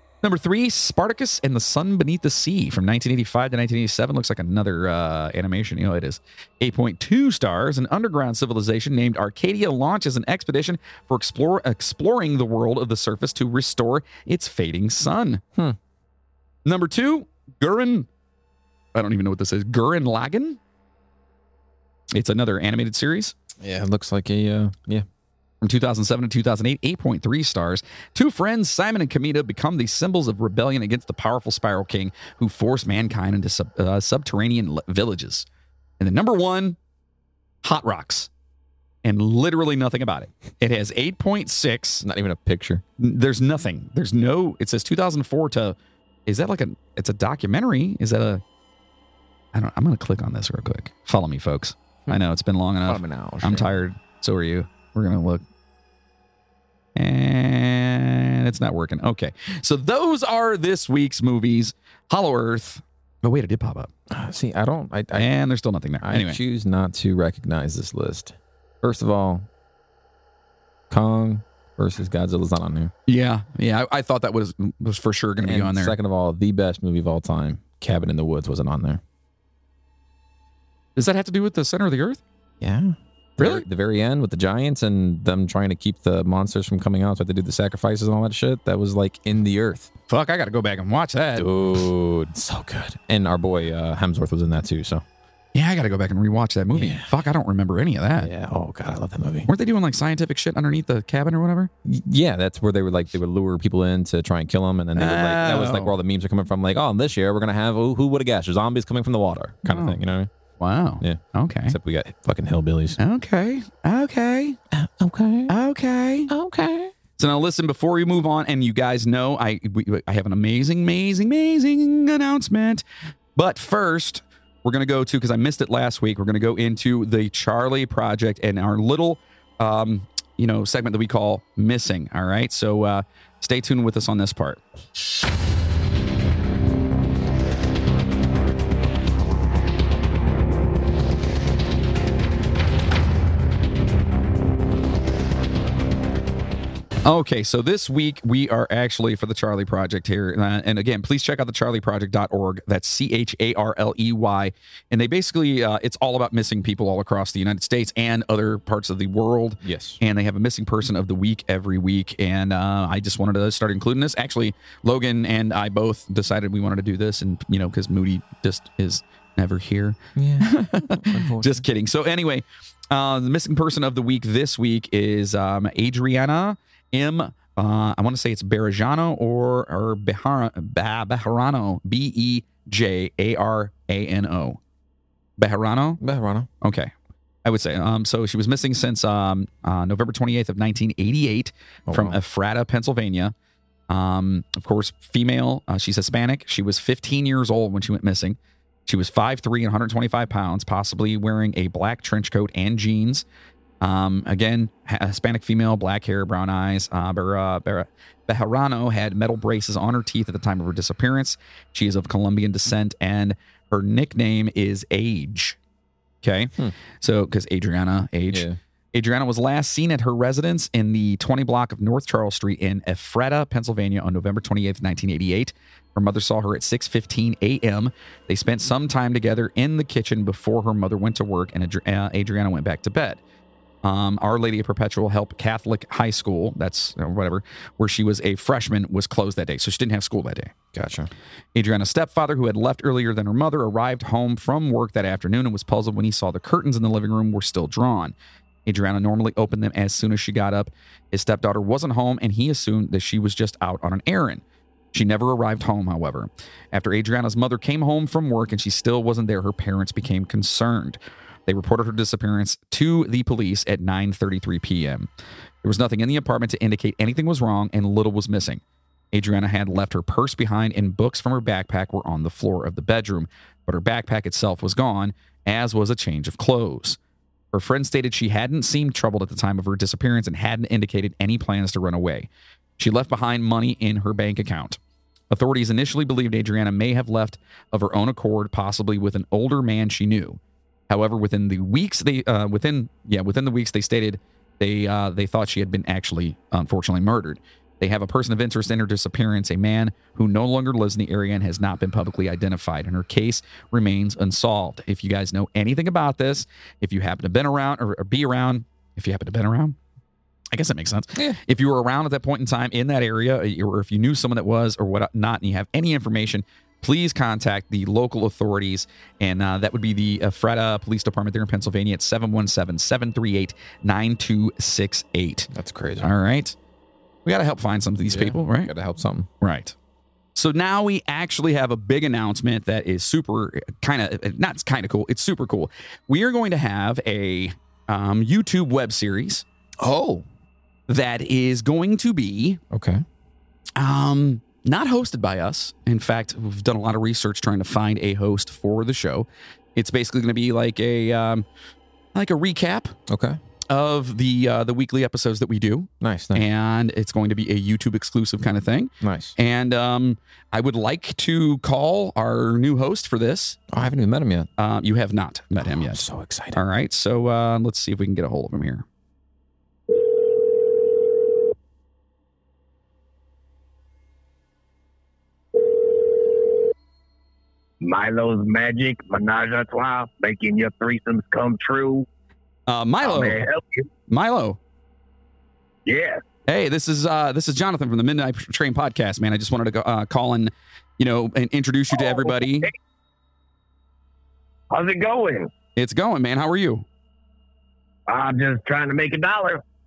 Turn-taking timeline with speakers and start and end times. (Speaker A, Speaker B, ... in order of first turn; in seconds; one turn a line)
Speaker A: 0.2-15.4
Speaker A: 16.6-18.1
Speaker A: 18.9-20.6
Speaker A: 22.1-23.3
Speaker B: 23.6-25.0
Speaker A: 25.6-35.5
Speaker A: 36.0-36.8
Speaker A: 37.6-38.3
Speaker A: 39.0-42.0
Speaker B: 42.0-42.8
Speaker A: 43.0-48.4
Speaker A: 49.5-55.4
Speaker B: 52.9-53.7
Speaker A: 57.0-63.9
Speaker B: 64.1-65.3
Speaker A: 65.2-66.4
Speaker B: 66.0-69.4
Speaker B: 70.9-72.9
Speaker A: 73.1-76.0
Speaker B: 75.4-79.0
Speaker A: 81.0-82.2
Speaker B: 82.6-89.9
Speaker A: 83.4-83.6
Speaker A: 90.1-91.5
Speaker B: 91.3-95.0
Speaker A: 95.5-98.3
Speaker B: 96.7-97.1
Speaker B: 98.2-99.5
Speaker A: 99.5-101.7
Speaker B: 101.8-110.3
Speaker A: 105.0-105.9
Speaker A: 109.7-110.0
Speaker A: 110.6-111.8
Speaker B: 111.0-113.0
Speaker A: 113.0-114.6
Speaker B: 114.7-115.5
Speaker A: 115.5-116.3
Speaker B: 116.3-116.9
Speaker A: 117.2-122.8
Speaker A: 123.3-134.6
Speaker A: 147.0-184.6
Speaker B: 159.6-160.0
Speaker B: 170.2-171.6
Speaker A: 185.4-186.0
Speaker B: 186.0-186.5
Speaker A: 186.6-186.9
Speaker A: 187.4-193.3
Speaker B: 191.9-192.2
Speaker A: 193.9-203.2
Speaker A: 203.8-215.6
Speaker A: 216.2-233.2
Speaker B: 218.3-218.6
Speaker A: 233.8-240.5
Speaker B: 240.7-241.1
Speaker A: 241.5-254.4
Speaker A: 254.9-265.1
Speaker A: 265.6-277.0
Speaker A: 277.5-282.3
Speaker A: 282.8-284.8
Speaker A: 285.3-309.8
Speaker A: 310.5-325.5
Speaker B: 325.5-326.1
Speaker A: 326.0-326.6
Speaker A: 327.2-328.7
Speaker B: 328.1-329.3
Speaker A: 329.4-329.7
Speaker A: 330.3-339.4
Speaker B: 339.8-340.2
Speaker A: 340.9-342.6
Speaker B: 342.7-343.0
Speaker A: 343.8-351.4
Speaker A: 352.1-352.9
Speaker B: 353.1-353.4
Speaker A: 353.7-363.6
Speaker B: 356.0-356.4
Speaker B: 359.0-359.4
Speaker B: 363.7-364.5
Speaker A: 364.6-366.0
Speaker B: 365.6-366.6
Speaker A: 366.5-368.8
Speaker C: 377.8-382.1
Speaker A: 382.7-383.4
Speaker C: 383.0-383.9
Speaker A: 384.1-384.6
Speaker C: 385.9-386.2
Speaker A: 386.5-392.7
Speaker C: 391.9-392.7
Speaker C: 394.7-395.5
Speaker A: 395.8-396.9
Speaker C: 398.1-399.6